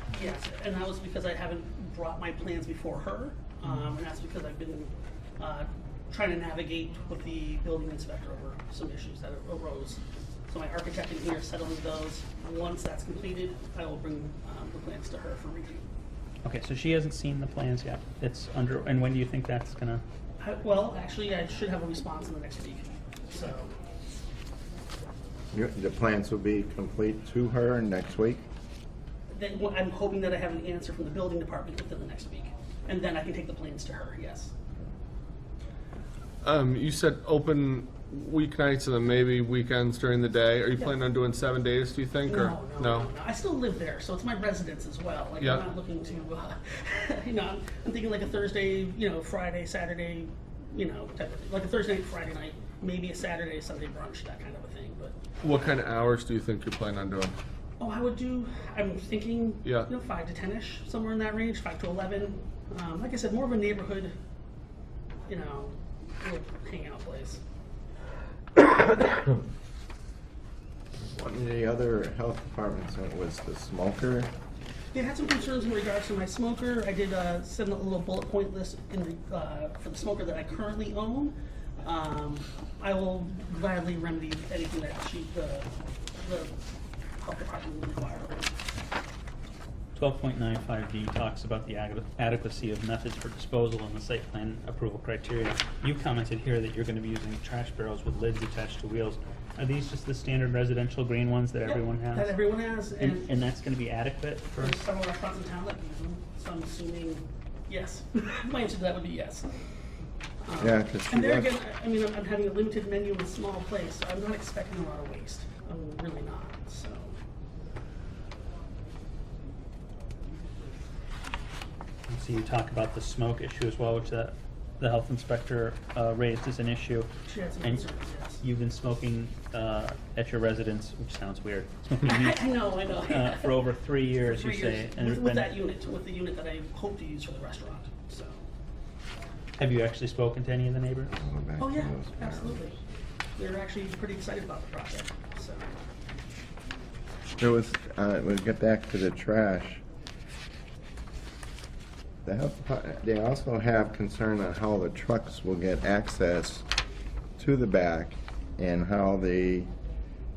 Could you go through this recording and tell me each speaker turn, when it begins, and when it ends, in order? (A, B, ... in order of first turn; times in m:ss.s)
0:00.1-0:15.8 A
0:03.6-0:03.9 B
0:16.4-0:20.0 B
0:20.4-0:23.7 A
0:25.5-0:28.4 C
0:29.3-0:34.5 A
0:36.4-0:43.1 D
0:42.3-0:55.2 A
0:55.4-0:57.4 D
0:57.8-1:04.1 A
0:59.6-0:59.9 D
1:05.3-1:07.4 A
1:11.0-1:14.3 C
1:14.9-1:26.5 A
1:27.2-1:28.5 A
1:30.0-1:42.4 B
1:41.6-1:43.3 A
1:43.0-1:44.8 B
1:44.6-1:49.5 A
1:50.4-1:57.2 A
1:50.6-1:51.6 C
2:02.1-2:07.1 B
2:07.3-2:08.4 A
2:08.4-2:15.6 B
2:12.0-2:18.5 A
2:19.6-2:21.2 B
2:21.1-2:22.7 C
2:21.6-2:22.8 A
2:23.4-2:25.7 A
2:27.4-2:29.8 C
2:32.2-2:36.7 C
2:37.4-2:39.7 C